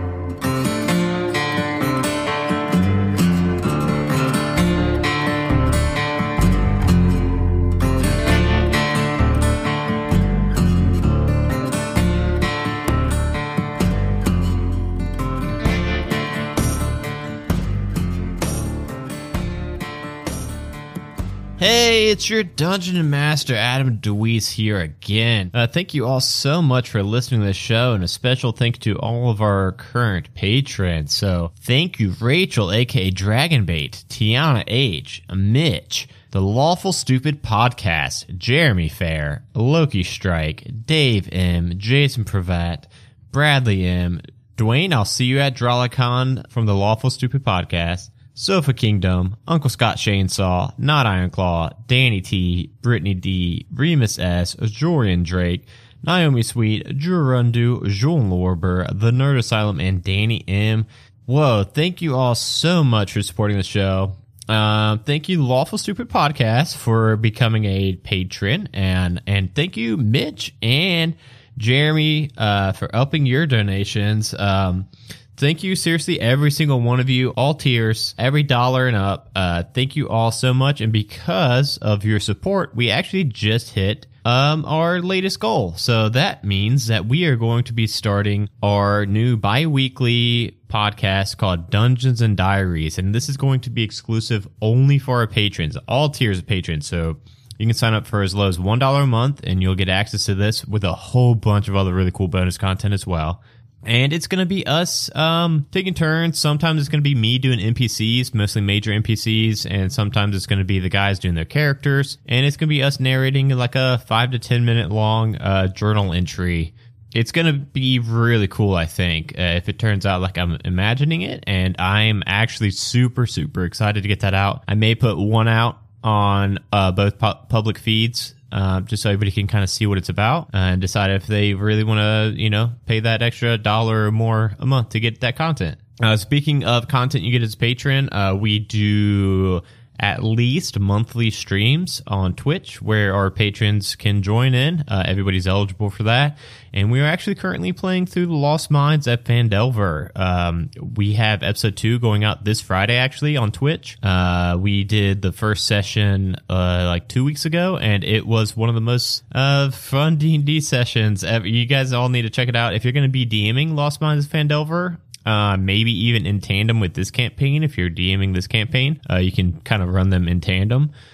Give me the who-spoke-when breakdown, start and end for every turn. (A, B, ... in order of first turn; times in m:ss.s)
0:21.6-2:50.9 A